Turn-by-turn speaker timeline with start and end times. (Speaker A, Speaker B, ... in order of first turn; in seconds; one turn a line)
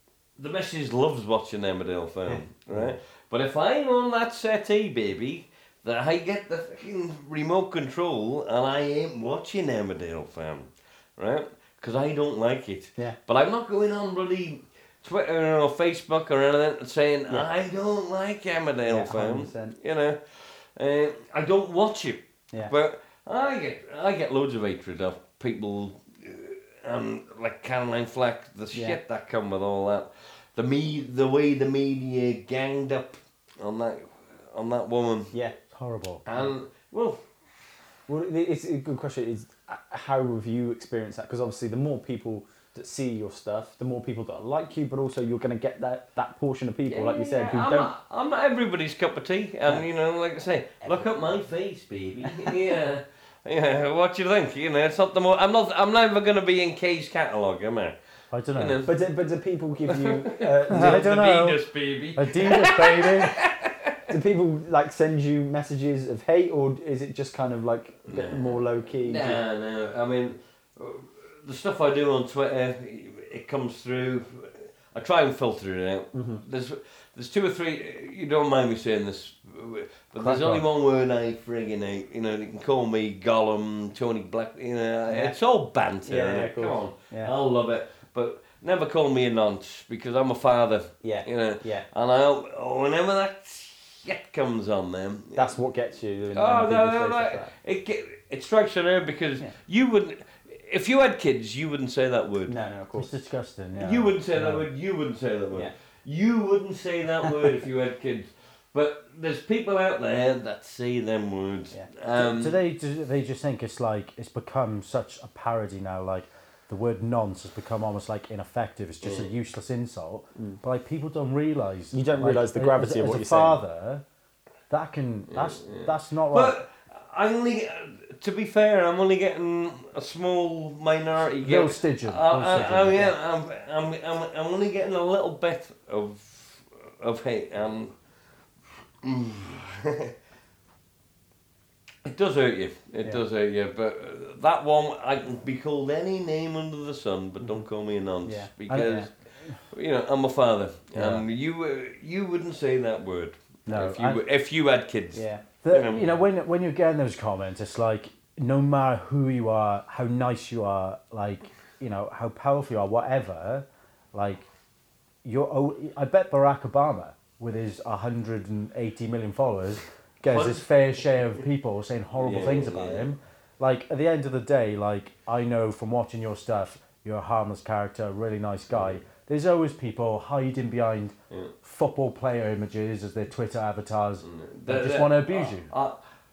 Speaker A: 0.4-35.3
Speaker B: 2.3-2.9
Speaker B: 18.9-19.8
Speaker B: 28.7-29.0
Speaker C: 35.7-36.2
Speaker A: 36.2-37.2
Speaker B: 38.1-47.9
Speaker A: 46.9-58.0
Speaker C: 58.3-58.8
Speaker A: 58.5-58.9
Speaker B: 58.9-61.1
Speaker A: 59.9-64.0
Speaker C: 60.7-61.6
Speaker C: 62.1-63.3
Speaker B: 64.1-69.4
Speaker A: 68.1-95.5
Speaker B: 76.1-76.4
Speaker C: 80.2-80.6
Speaker B: 85.1-85.3
Speaker B: 86.0-87.3
Speaker B: 91.0-91.8
Speaker B: 95.3-97.5
Speaker A: 96.3-102.5
Speaker B: 102.5-103.1
Speaker C: 102.9-104.7
Speaker A: 103.8-112.6
Speaker C: 112.2-124.0
Speaker B: 121.9-123.6
Speaker C: 124.7-126.6
Speaker A: 125.3-137.9
Speaker C: 131.4-133.1
Speaker B: 132.6-133.0
Speaker A: 139.0-140.1
Speaker A: 142.0-149.1
Speaker B: 148.2-149.1
Speaker C: 148.7-149.5
Speaker A: 149.7-156.1
Speaker C: 150.9-151.2
Speaker C: 153.7-154.2
Speaker B: 155.1-155.4
Speaker C: 155.6-164.4
Speaker C: 165.2-185.7
Speaker A: 170.2-170.6
Speaker A: 172.2-173.1
Speaker A: 178.7-179.0
Speaker A: 184.2-186.0